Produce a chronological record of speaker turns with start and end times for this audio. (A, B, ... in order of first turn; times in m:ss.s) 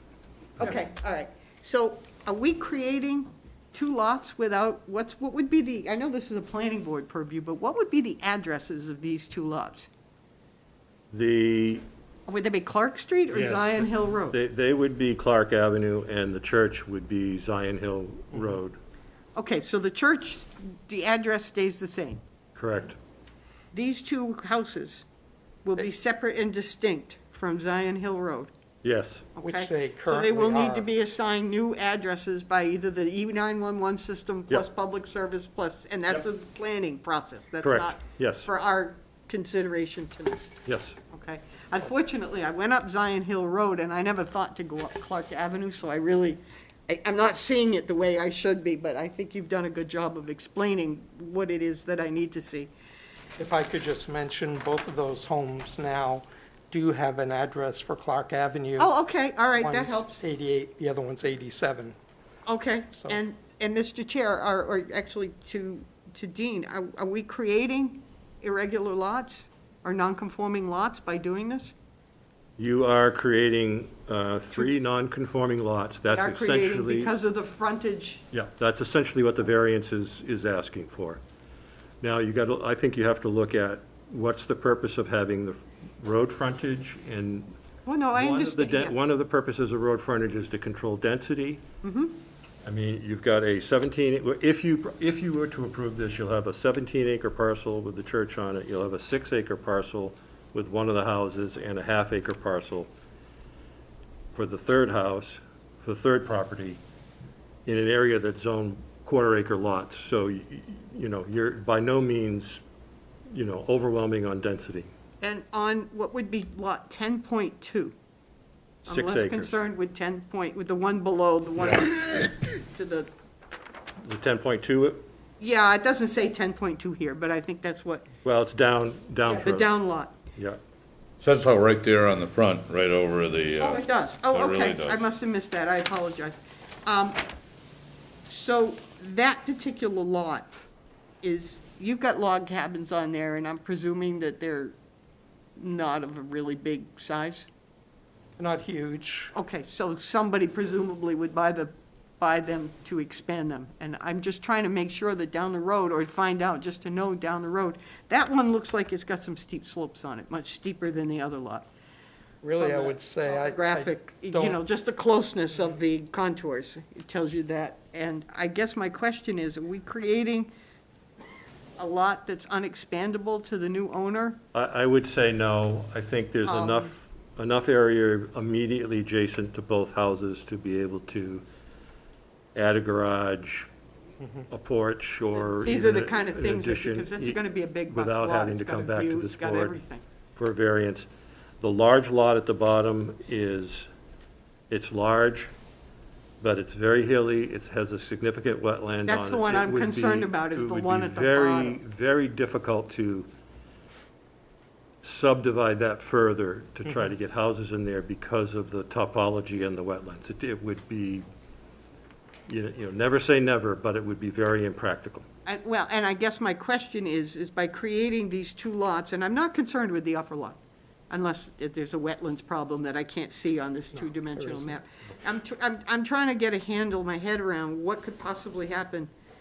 0:00.6-0:09.9 A
0:11.1-0:11.8 B
0:12.3-0:14.4 A
0:13.3-0:18.8 B
0:19.3-0:22.2 A
0:22.6-0:23.0 B
0:23.7-0:25.0 A
0:25.6-0:28.5 A
0:28.8-0:29.3 B
0:29.4-0:40.5 A
0:29.4-0:30.9 C
0:37.6-0:38.5 B
0:40.6-0:41.0 B
0:41.1-0:52.7 A
0:53.4-0:58.9 C
0:58.8-1:00.2 A
0:59.6-1:01.9 C
1:02.4-1:11.7 A
1:02.9-1:03.2 C
1:12.6-1:17.1 B
1:16.1-1:18.2 A
1:18.3-1:21.2 B
1:22.0-1:27.6 B
1:27.8-1:28.9 A
1:28.1-1:31.6 B
1:31.8-1:32.2 A
1:32.6-1:42.9 B
1:44.3-1:46.8 B
1:47.6-1:52.6 B
1:53.3-1:54.9 B
1:55.2-1:57.9 A
1:58.9-2:03.1 A
1:58.9-1:59.5 B
2:04.0-2:05.0 B
2:05.4-2:08.0 A
2:08.2-2:09.7 B
2:09.2-2:10.2 A
2:10.3-2:10.6 B
2:11.2-2:15.0 D
2:13.6-2:17.2 A
2:18.3-2:20.5 A
2:21.2-2:24.7 A
2:25.6-2:27.5 A
2:28.4-2:29.3 C
2:29.3-2:41.7 A
2:42.4-2:44.6 C
2:42.6-2:50.5 A
2:51.8-2:54.4 A
2:54.5-3:01.4 B
2:56.4-2:56.9 A
3:02.5-3:03.7 B
3:04.5-3:09.8 B
3:05.6-3:10.0 A
3:10.4-3:11.1 B
3:11.6-3:13.9 B
3:14.7-3:15.5 B
3:16.4-3:23.3 B
3:19.0-3:21.8 A
3:25.0-3:31.2 B
3:32.5-3:35.2 B
3:35.4-3:40.6 A
3:41.1-3:49.1 A
3:43.9-3:44.8 C